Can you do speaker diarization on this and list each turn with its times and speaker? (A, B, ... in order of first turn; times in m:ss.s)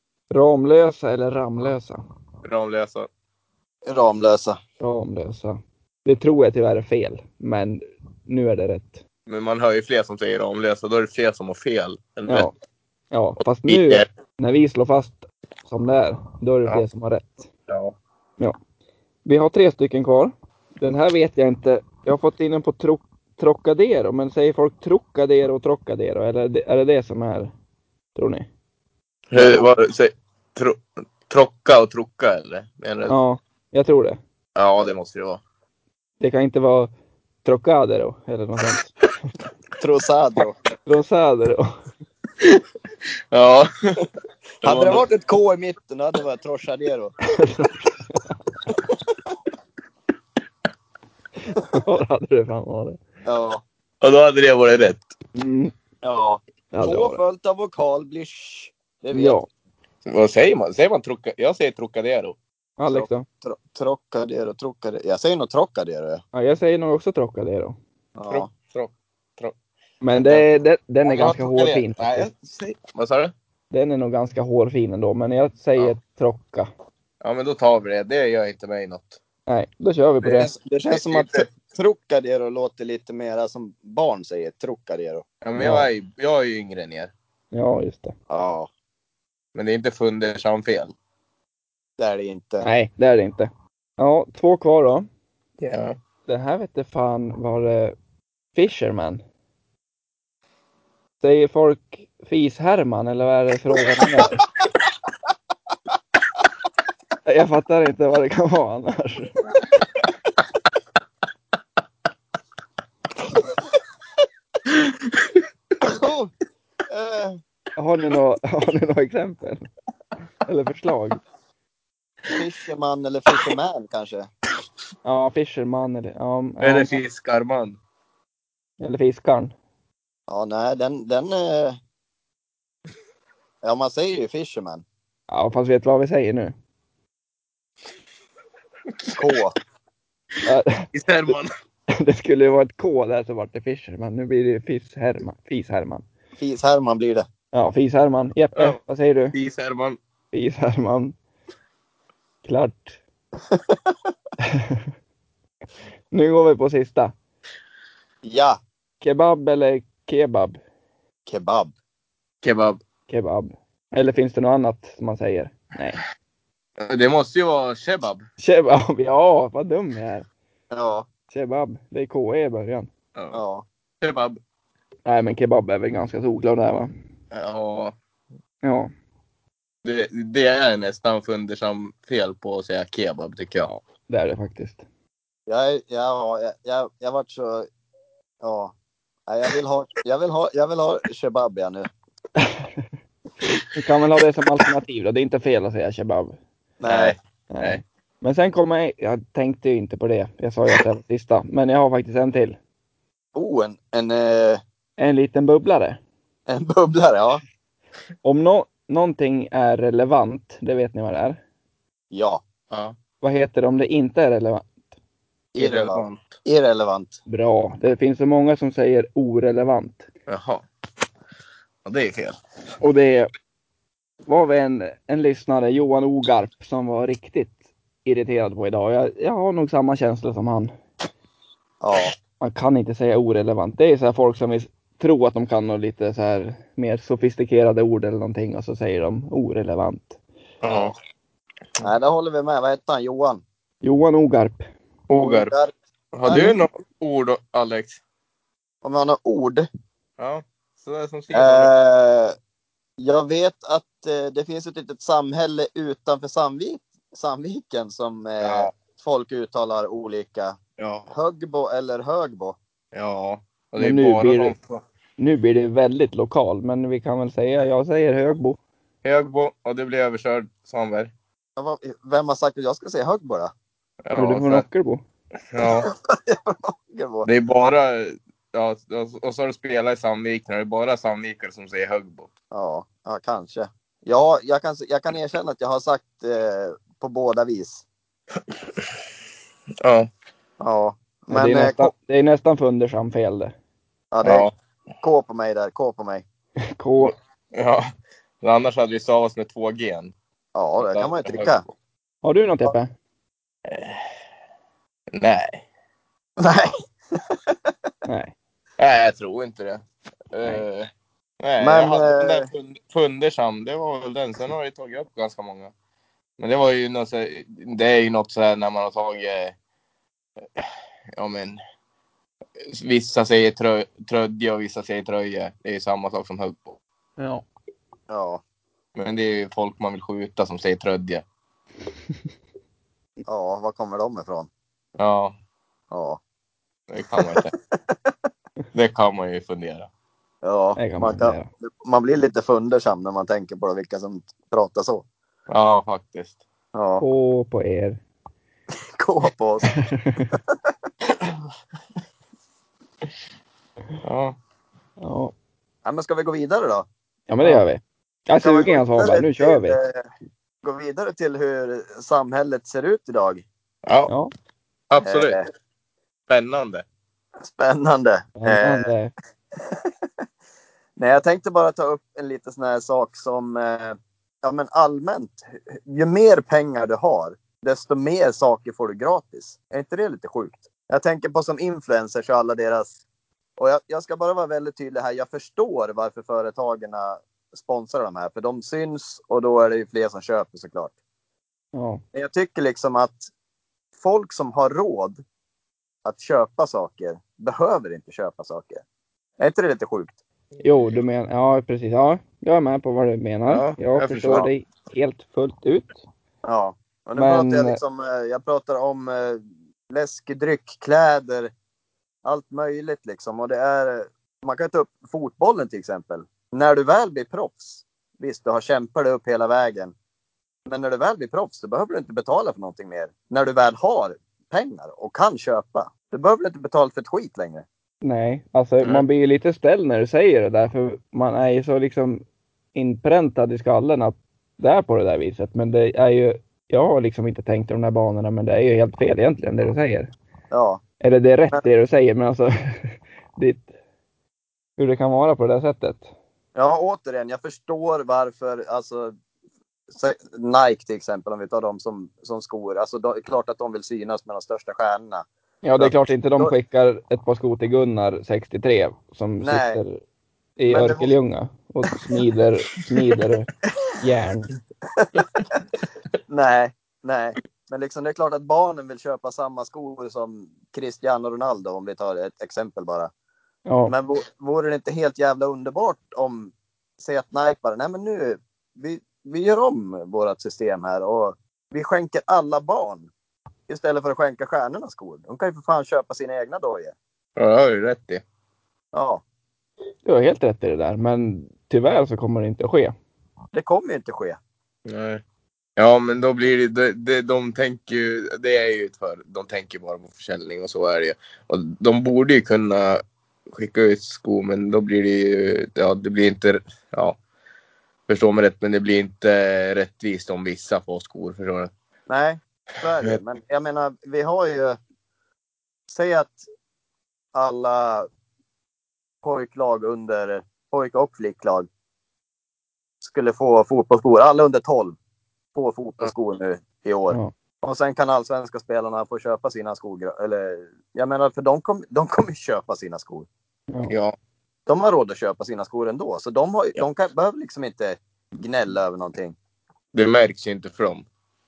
0:00.3-0:02.0 A
0:02.4-0:03.1 B
0:03.9-0:04.6 C
0:04.8-0:09.0 A
0:09.3-0:12.5 B
0:12.3-0:12.5 A
0:13.1-0:17.5 A
0:13.7-0:14.0 B
0:17.7-0:18.0 B
0:19.2-0:27.5 A
0:28.2-0:28.5 A
0:29.3-0:33.2 B
0:29.4-0:29.6 A
0:33.1-0:34.2 A
0:34.6-0:35.4 B
0:36.2-0:36.9 A
0:37.4-0:38.9 A
0:39.8-0:40.6 C
0:40.9-0:41.7 A
0:43.3-0:44.1 B
0:44.6-0:45.0 B
0:44.6-0:47.1 C
0:47.3-0:48.4 A
0:51.5-0:53.0 A
0:53.2-0:53.6 C
0:54.0-0:55.1 B
0:55.4-0:55.7 A
0:56.0-0:59.4 C
0:56.7-0:57.2 A
0:59.1-0:59.5 A
1:00.1-1:02.4 B
1:02.8-1:03.3 A
1:02.9-1:06.2 C
1:06.3-1:07.8 A
1:08.2-1:08.5 C
1:08.3-1:09.5 B
1:10.0-1:12.3 A
1:10.2-1:10.4 B
1:11.0-1:13.3 B
1:13.7-1:16.7 A
1:17.2-1:19.2 B
1:19.5-1:20.5 A
1:20.2-1:25.2 C
1:20.9-1:21.5 B
1:25.4-1:27.1 B
1:25.6-1:25.9 A
1:27.5-1:28.1 A
1:28.3-1:28.7 C
1:29.6-1:30.9 B
1:32.0-1:32.7 C
1:32.6-1:35.1 A
1:35.6-1:36.0 B
1:36.3-1:38.0 A
1:38.5-1:39.2 A
1:41.2-1:44.4 A
1:47.2-1:49.4 A
1:54.7-1:55.3 B
1:55.8-1:56.3 C
1:56.9-1:57.4 C
1:57.8-1:59.7 A
2:00.4-2:01.2 A
2:02.3-2:04.3 C
2:05.0-2:06.9 A
2:06.6-2:07.8 B
2:08.8-2:09.5 A
2:10.3-2:11.8 C
2:13.6-2:14.8 C
2:15.3-2:16.5 A
2:19.2-2:19.6 C
2:20.4-2:20.9 A
2:20.9-2:21.5 B
2:22.0-2:26.0 A
2:26.4-2:27.3 C
2:27.5-2:29.4 A
2:29.3-2:30.0 B
2:30.3-2:31.2 A
2:32.4-2:33.0 A
2:33.5-2:33.9 C
2:34.4-2:34.8 A
2:36.1-2:37.1 A
2:38.2-2:38.6 C
2:39.0-2:40.6 A
2:41.3-2:41.7 C
2:42.4-2:42.8 B
2:43.1-2:46.0 A
2:46.8-2:48.2 B
2:48.4-2:50.3 A
2:50.7-2:51.1 C
2:51.3-2:52.9 A
2:53.2-2:53.4 B
2:53.3-2:53.7 C
2:54.0-2:54.4 B
2:55.1-2:56.9 A
2:57.3-2:57.9 B
2:58.6-2:58.9 A
2:59.8-3:03.7 B
3:03.7-3:04.8 A
3:05.5-3:07.7 C
3:08.4-3:08.7 C
3:09.3-3:11.9 C
3:12.4-3:12.8 A
3:13.7-3:16.4 A
3:16.8-3:17.2 C
3:16.9-3:17.8 B
3:17.5-3:22.6 A
3:23.4-3:24.6 C
3:25.0-3:26.0 A
3:26.5-3:27.4 C
3:28.2-3:31.4 A
3:32.1-3:32.4 C
3:32.7-3:33.0 B
3:33.2-3:34.7 A
3:35.6-3:37.2 C
3:35.6-3:36.4 B
3:37.3-3:40.1 A
3:40.3-3:40.6 B
3:41.8-3:42.4 B
3:42.8-3:43.3 A
3:44.3-3:50.7 A
3:51.8-3:52.1 C
3:52.4-4:00.2 A
4:00.6-4:00.9 B
4:01.8-4:03.4 C
4:03.8-4:04.7 A
4:05.1-4:05.5 B
4:05.2-4:05.7 C
4:06.1-4:08.0 B
4:06.3-4:06.6 C
4:08.8-4:09.7 C
4:10.2-4:11.7 B
4:11.3-4:12.4 C
4:13.0-4:20.6 C
4:18.4-4:18.7 B
4:20.8-4:21.1 B
4:21.1-4:22.6 C
4:22.9-4:24.8 B
4:23.8-4:24.6 A
4:25.2-4:28.6 A
4:29.0-4:31.1 B
4:31.6-4:33.5 C
4:34.0-4:34.6 B
4:34.2-4:35.0 A
4:35.5-4:35.9 B
4:35.6-4:37.3 C
4:37.2-4:42.3 B
4:42.5-4:47.8 C
4:49.8-4:50.1 B
4:50.6-4:51.9 C
4:51.3-4:53.5 A
4:54.1-4:54.5 C
4:54.2-4:54.5 B
4:55.0-4:56.2 C
4:56.8-4:57.2 A
4:57.5-4:57.8 B
4:58.4-5:00.1 B
5:00.6-5:01.6 C
5:00.8-5:01.6 B
5:02.2-5:02.9 A
5:03.7-5:04.0 B
5:05.1-5:05.6 B
5:06.4-5:07.6 C
5:08.1-5:08.3 A
5:08.8-5:10.9 B
5:11.4-5:15.7 B
5:11.6-5:12.5 C
5:16.4-5:19.6 B
5:20.6-5:21.6 B
5:22.7-5:26.8 B
5:27.2-5:27.4 A
5:28.1-5:28.4 C
5:29.0-5:31.2 B
5:33.3-5:34.5 C
5:35.0-5:35.4 B
5:35.9-5:36.2 C
5:36.9-5:37.5 B
5:37.2-5:38.1 C
5:38.7-5:39.9 B
5:40.4-5:45.0 C
5:40.8-5:41.5 A
5:45.5-5:46.4 B
5:46.8-5:47.0 C
5:47.0-5:48.0 A
5:49.0-5:49.7 C
5:49.8-5:50.3 A
5:54.0-5:54.4 B
5:55.0-5:55.3 A
5:55.8-5:56.9 C
5:57.3-5:59.8 A
5:58.4-6:00.0 C
6:00.6-6:03.4 C
6:03.9-6:04.1 B
6:04.9-6:05.4 B
6:05.0-6:05.5 C
6:06.3-6:06.8 B
6:07.4-6:08.9 C
6:08.4-6:09.1 A
6:09.6-6:09.9 C
6:11.0-6:23.0 C
6:23.6-6:30.9 C
6:31.7-6:32.0 A
6:32.1-6:33.3 C
6:34.0-6:35.2 C
6:36.0-6:38.8 C
6:39.4-6:40.2 C
6:40.6-6:46.0 A
6:43.5-6:44.5 B
6:46.4-6:51.5 C
6:47.2-6:47.8 A
6:52.2-6:59.9 C
7:00.7-7:07.6 C
7:08.0-7:12.2 A
7:12.7-7:20.1 A
7:20.5-7:20.8 C
7:21.0-7:23.7 A
7:24.8-7:26.1 A
7:26.6-7:29.1 C
7:29.9-7:35.2 C
7:35.6-7:40.0 A
7:35.8-7:36.5 C
7:39.4-7:39.8 C
7:40.6-7:44.5 A
7:40.7-7:41.1 C
7:46.3-7:53.1 C
7:53.7-7:53.9 A
7:53.9-8:03.1 C
8:03.7-8:07.0 C
8:07.4-8:08.2 B
8:08.9-8:09.2 C
8:10.0-8:12.9 A
8:13.5-8:14.4 C
8:14.9-8:15.2 B
8:15.8-8:27.2 B
8:28.1-8:31.7 B
8:32.1-8:34.8 C
8:35.9-8:36.4 C
8:37.3-8:38.1 C
8:39.2-8:41.7 C
8:43.0-8:45.0 C
8:45.6-8:53.3 C
8:53.9-8:54.2 B
8:54.7-8:59.4 C
8:59.9-9:01.0 B